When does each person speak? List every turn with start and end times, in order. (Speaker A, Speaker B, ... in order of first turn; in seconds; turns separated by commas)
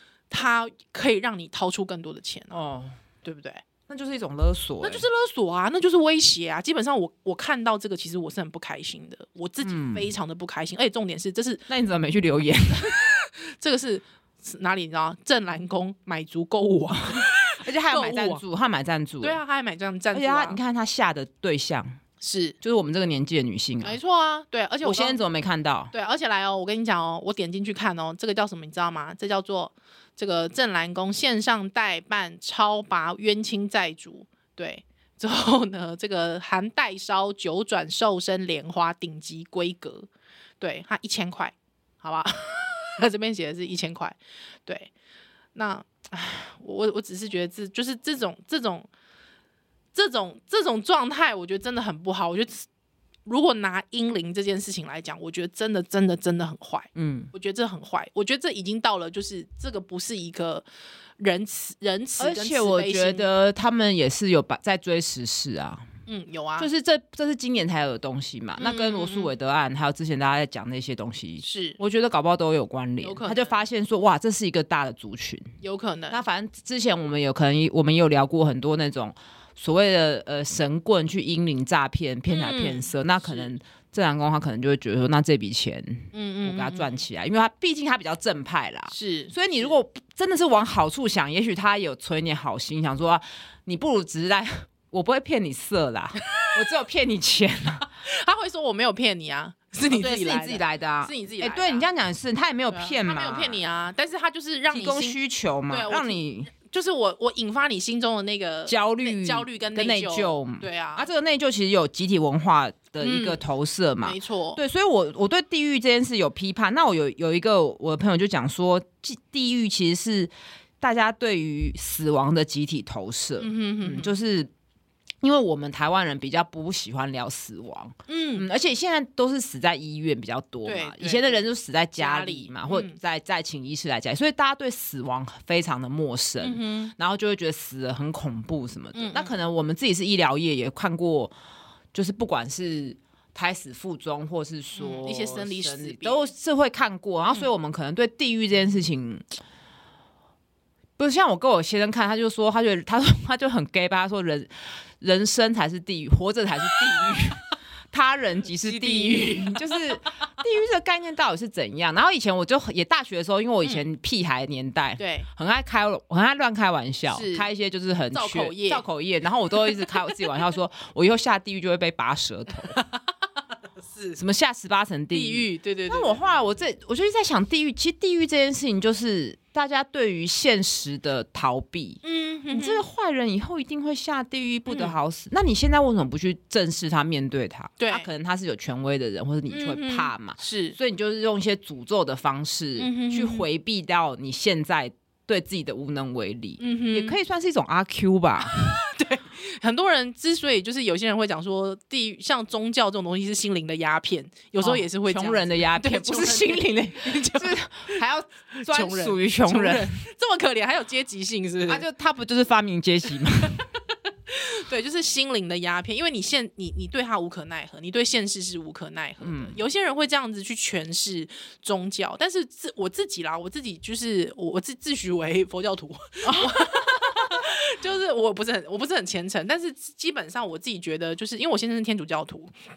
Speaker A: 0.3-2.6, Speaker B: 2.5-3.0, Speaker A: 3.2-3.6, Speaker B: 3.9-5.1, Speaker A: 4.8-11.7, Speaker B: 9.6-10.1, Speaker B: 11.7-13.0, Speaker A: 12.7-18.4, Speaker B: 17.6-19.4, Speaker A: 19.2-20.6, Speaker B: 20.1-22.0, Speaker A: 22.2-22.6, Speaker B: 22.6-24.0, Speaker A: 23.8-25.2, Speaker B: 24.8-25.9, Speaker A: 25.9-40.1, Speaker A: 40.6-44.9, Speaker A: 45.5-48.9, Speaker A: 49.9-52.7, Speaker A: 53.3-60.7, Speaker B: 57.0-57.3, Speaker A: 61.2-63.3, Speaker B: 62.2-65.9, Speaker A: 66.1-66.7, Speaker B: 66.6-75.5, Speaker A: 68.6-69.3, Speaker A: 71.4-71.8, Speaker A: 73.0-73.6, Speaker A: 75.6-76.2, Speaker B: 76.1-97.9, Speaker A: 82.3-83.5, Speaker A: 86.1-87.0, Speaker A: 88.9-89.8, Speaker A: 97.8-101.9, Speaker B: 99.9-103.6, Speaker A: 102.7-105.2, Speaker B: 104.7-106.5, Speaker A: 105.7-111.1, Speaker B: 108.7-124.5, Speaker A: 113.0-113.4, Speaker A: 114.0-114.6, Speaker A: 123.4-124.1, Speaker B: 125.2-141.3, Speaker A: 128.1-128.5, Speaker A: 130.7-131.4, Speaker A: 132.0-133.0, Speaker A: 136.4-136.9, Speaker A: 138.9-139.3, Speaker B: 141.9-149.2, Speaker A: 144.8-146.3, Speaker B: 151.0-172.8, Speaker A: 158.6-160.0, Speaker A: 165.0-165.3, Speaker A: 167.1-167.5, Speaker A: 168.1-168.8, Speaker A: 169.7-170.1, Speaker A: 172.7-173.0, Speaker A: 173.8-174.2, Speaker B: 174.2-198.8, Speaker A: 175.1-176.4, Speaker A: 182.0-182.8, Speaker A: 184.7-184.9, Speaker A: 187.8-188.1, Speaker A: 189.5-190.8, Speaker A: 192.8-193.5, Speaker A: 196.6-197.2, Speaker A: 198.4-208.0, Speaker B: 204.6-210.0, Speaker A: 208.6-211.8, Speaker B: 211.7-213.6, Speaker A: 213.4-213.7, Speaker A: 214.3-232.5, Speaker B: 219.2-219.6, Speaker B: 226.2-227.0